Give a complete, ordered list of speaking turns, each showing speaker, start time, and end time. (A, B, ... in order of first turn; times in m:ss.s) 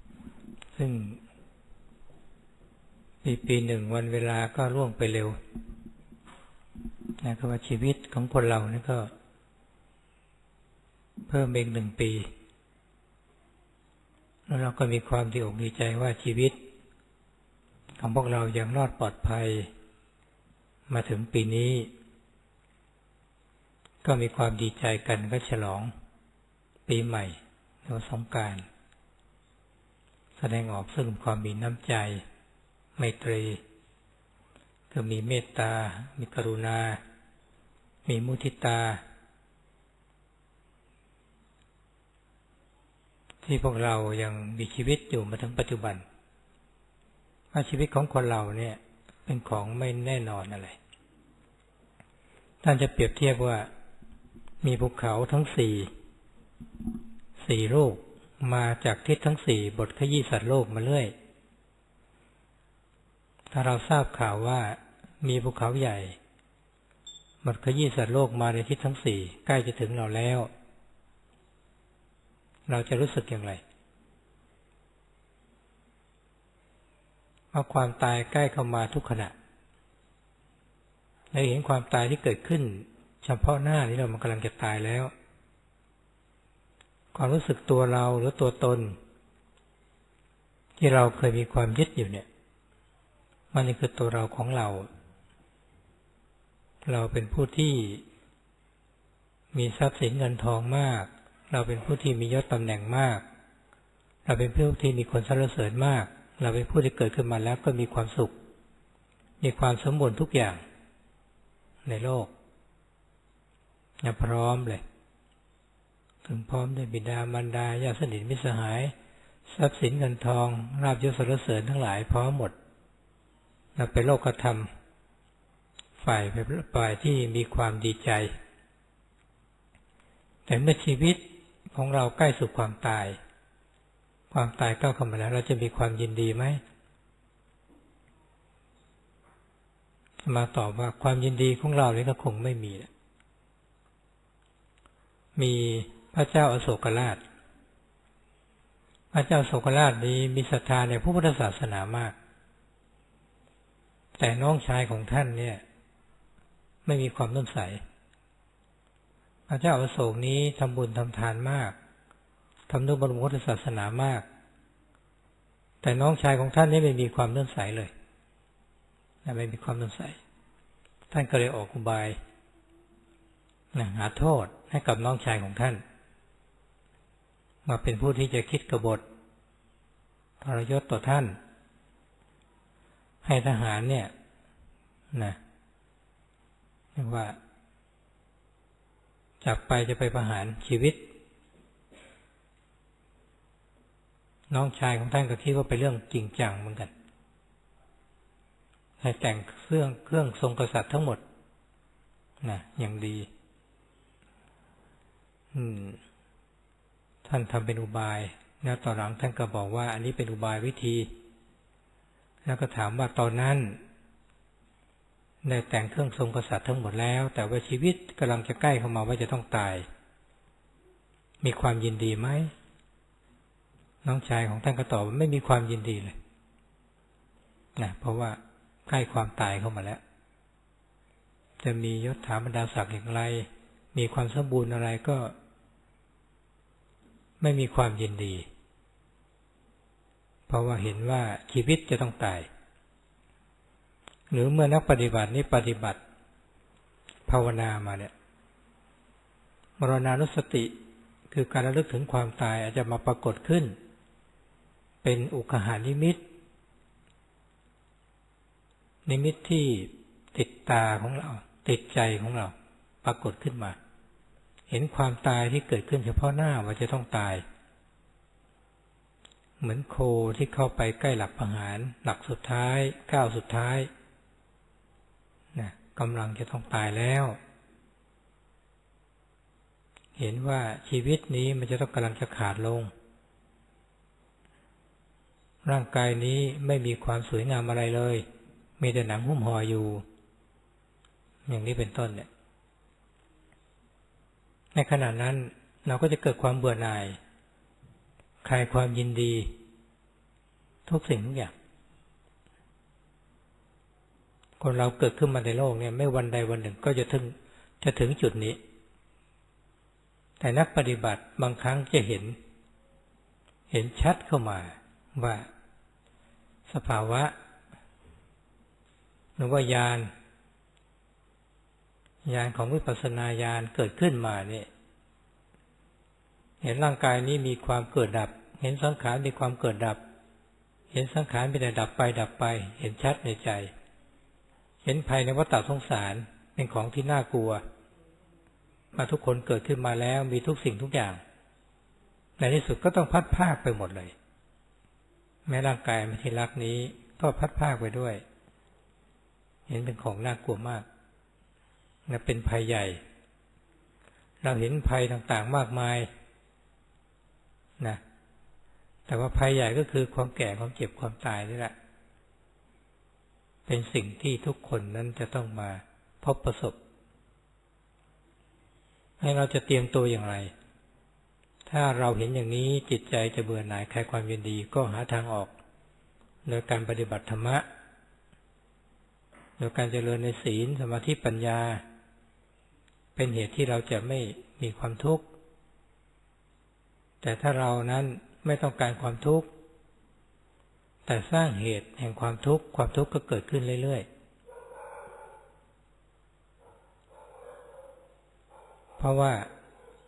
0:00.8-0:01.2 A
0:03.2-0:05.4 A
0:07.2-0:09.1 A
0:11.3-0:12.3 A
0:14.5-0:16.6 A
0:18.0-0:19.7 A
0:20.9-0:21.9 A
0:24.0-0:25.9 A
0:26.9-0:28.7 A
0:30.4-0:32.2 A
0:33.0-0:33.6 A
0:34.9-0:37.0 A
0:38.1-0:39.0 A
0:43.4-0:46.0 A
0:47.5-0:50.8 A
0:52.6-0:53.7 A
0:54.6-0:55.9 A
0:57.4-1:01.1 A
1:03.5-1:06.2 A
1:07.4-1:10.5 A
1:12.7-1:13.6 A
1:17.5-1:19.3 A
1:21.3-1:25.1 A
1:27.2-1:29.0 A
1:30.8-1:32.3 A
1:33.5-1:34.9 A
1:36.8-1:38.0 A
1:39.5-1:43.2 A
1:44.3-1:48.4 A
1:49.4-1:50.6 A
1:51.8-1:52.3 A
1:54.0-1:54.8 A
1:56.2-1:58.9 A
1:59.5-2:02.6 A
2:03.8-2:04.7 A
2:06.0-2:08.3 A
2:10.5-2:11.2 A
2:11.7-2:13.2 A
2:14.3-2:16.6 A
2:20.2-2:22.9 A
2:25.4-2:27.2 A
2:29.1-2:32.2 A
2:34.2-2:35.6 A
2:36.8-2:37.8 A
2:39.5-2:41.8 A
2:42.7-2:44.3 A
2:45.8-2:47.9 A
2:49.2-2:50.2 A
2:51.1-2:52.2 A
2:53.7-2:55.8 A
2:57.7-2:59.0 A
3:00.4-3:01.4 A
3:03.2-3:04.1 A
3:05.1-3:05.4 A
3:07.0-3:07.4 A
3:09.4-3:11.0 A
3:14.5-3:16.9 A
3:19.0-3:21.2 A
3:22.4-3:23.3 A
3:25.5-3:26.0 A
3:27.2-3:31.1 A
3:32.5-3:33.8 A
3:35.4-3:39.9 A
3:41.4-3:42.5 A
3:44.0-3:46.2 A
3:47.8-3:50.0 A
3:51.6-3:55.3 A
3:57.4-3:58.5 A
4:00.5-4:02.5 A
4:04.3-4:06.0 A
4:07.3-4:08.1 A
4:09.8-4:10.7 A
4:11.3-4:13.8 A
4:15.0-4:16.2 A
4:19.1-4:23.8 A
4:24.7-4:27.4 A
4:29.6-4:33.9 A
4:35.5-4:37.4 A
4:40.2-4:42.9 A
4:45.6-4:48.2 A
4:48.8-4:50.0 A
4:51.5-4:52.3 A
4:54.7-4:57.2 A
4:58.4-4:59.5 A
5:00.9-5:01.5 A
5:04.6-5:08.6 A
5:10.4-5:12.4 A
5:13.7-5:15.5 A
5:16.7-5:17.3 A
5:19.4-5:20.1 A
5:22.2-5:24.7 A
5:26.6-5:30.0 A
5:30.9-5:33.7 A
5:34.8-5:37.6 A
5:39.0-5:41.2 A
5:42.4-5:44.2 A
5:45.5-5:48.2 A
5:49.7-5:50.8 A
5:52.1-5:53.0 A
5:54.4-5:56.1 A
5:59.1-6:01.7 A
6:03.7-6:06.8 A
6:09.2-6:10.5 A
6:11.6-6:15.5 A
6:16.5-6:17.6 A
6:19.6-6:21.8 A
6:23.2-6:25.3 A
6:27.2-6:29.5 A
6:31.1-6:34.1 A
6:39.0-6:39.5 A